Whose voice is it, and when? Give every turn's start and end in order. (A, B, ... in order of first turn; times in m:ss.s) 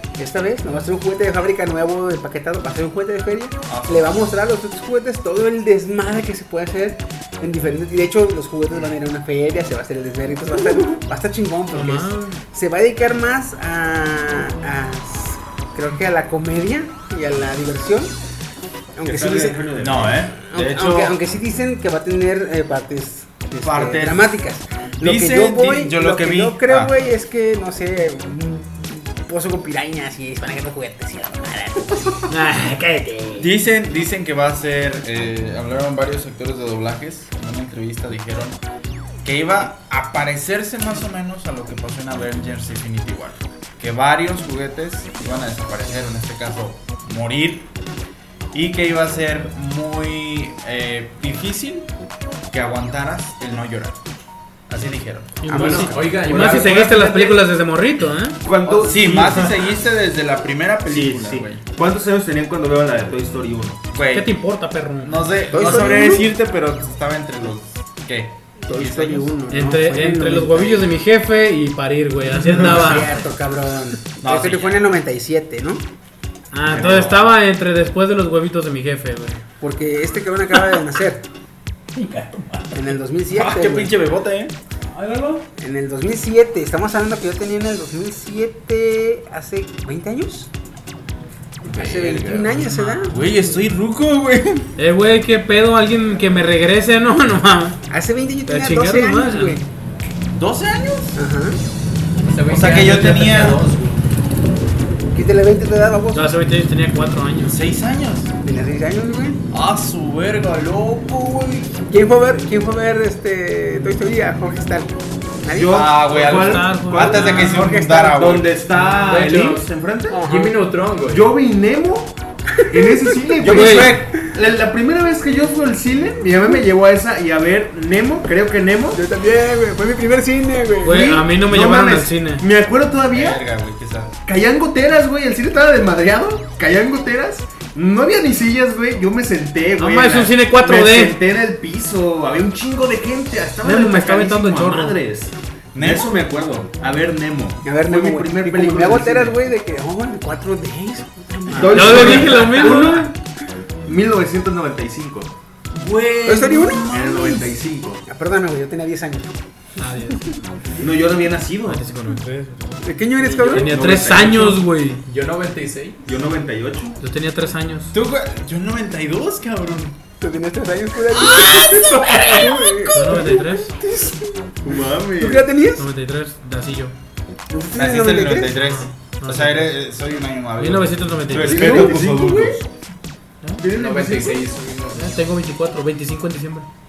0:00.2-0:18.1 A
0:03.7-0:04.2 B
0:11.7-0:12.4 C
0:19.0-0:32.2 A
0:19.0-0:20.3 D
0:19.8-0:21.2 B
0:23.6-0:24.4 B
0:25.0-0:26.9 B
0:32.3-0:33.5 C
0:33.4-0:38.6 B
0:39.2-0:47.7 B
0:48.5-0:51.9 B
0:52.5-0:54.0 B
0:54.7-0:55.6 B
0:55.4-0:58.4 C
0:55.4-0:56.6 A
0:55.5-0:57.0 E
0:56.3-0:57.4 D
0:58.4-0:59.5 D
0:58.6-1:01.6 B
1:00.9-1:03.9 D
1:03.9-1:04.3 B
1:04.1-1:05.4 C
1:05.0-1:09.4 B
1:05.5-1:06.3 A
1:08.7-1:10.9 A
1:09.5-1:13.2 C
1:12.5-1:15.8 A
1:14.2-1:14.9 B
1:16.5-1:19.4 C
1:16.7-1:17.1 D
1:16.7-1:17.1 B
1:19.6-1:21.2 A
1:22.0-1:22.7 C
1:22.7-1:24.0 A
1:23.3-1:24.6 B
1:24.9-1:25.5 C
1:25.6-1:30.5 A
1:31.6-1:33.4 A
1:31.8-1:32.5 B
1:32.5-1:33.2 C
1:33.1-1:34.7 B
1:34.8-1:37.8 C
1:37.9-1:39.6 A
1:38.5-1:39.6 C
1:40.3-1:41.2 B
1:41.2-1:41.6 A
1:42.2-1:44.0 E
1:42.5-1:43.6 B
1:45.1-1:46.3 A
1:46.1-1:47.6 C
1:47.4-1:48.3 B
1:48.4-1:49.4 A
1:49.5-1:51.8 B
1:51.9-1:55.9 A
1:55.5-2:00.3 D
1:55.7-1:58.7 B
1:56.1-1:57.7 C
1:57.1-1:58.3 A
1:58.8-1:59.6 C
1:59.1-1:59.6 E
2:00.1-2:00.5 A
2:00.2-2:01.3 E
2:01.0-2:02.2 D
2:02.6-2:03.8 A
2:02.7-2:09.0 D
2:03.4-2:04.1 B
2:03.4-2:04.0 C
2:08.9-2:11.2 A
2:10.8-2:12.4 C
2:10.9-2:13.4 D
2:13.1-2:14.2 B
2:14.2-2:29.4 D
2:19.8-2:21.2 C
2:23.6-2:25.0 C
2:25.8-2:26.2 B
2:26.8-2:27.4 B
2:27.6-2:32.9 A
2:31.5-2:33.1 D
2:31.6-2:33.1 C
2:31.7-2:33.0 B
2:33.8-2:35.3 D
2:35.7-2:37.4 B
2:36.2-2:39.3 A
2:36.6-2:38.0 D
2:39.8-2:40.7 C
2:40.8-2:41.9 D
2:41.7-2:42.9 C
2:42.8-2:43.8 A
2:43.4-2:45.0 C
2:43.4-2:44.6 D
2:45.0-2:46.0 E
2:46.1-2:47.0 D
2:47.0-2:47.9 C
2:47.9-2:50.0 B
2:50.2-2:54.5 A
2:51.1-2:53.4 B
2:52.9-2:53.8 C
2:54.6-2:55.5 D
2:55.2-2:55.9 A
2:55.8-2:56.9 C
2:57.5-2:58.6 A
2:57.8-3:02.7 B
2:58.6-2:59.7 C
3:00.6-3:02.0 C
3:01.3-3:02.6 D
3:01.5-3:02.0 A
3:03.6-3:04.4 D
3:03.7-3:05.2 E
3:04.9-3:06.7 C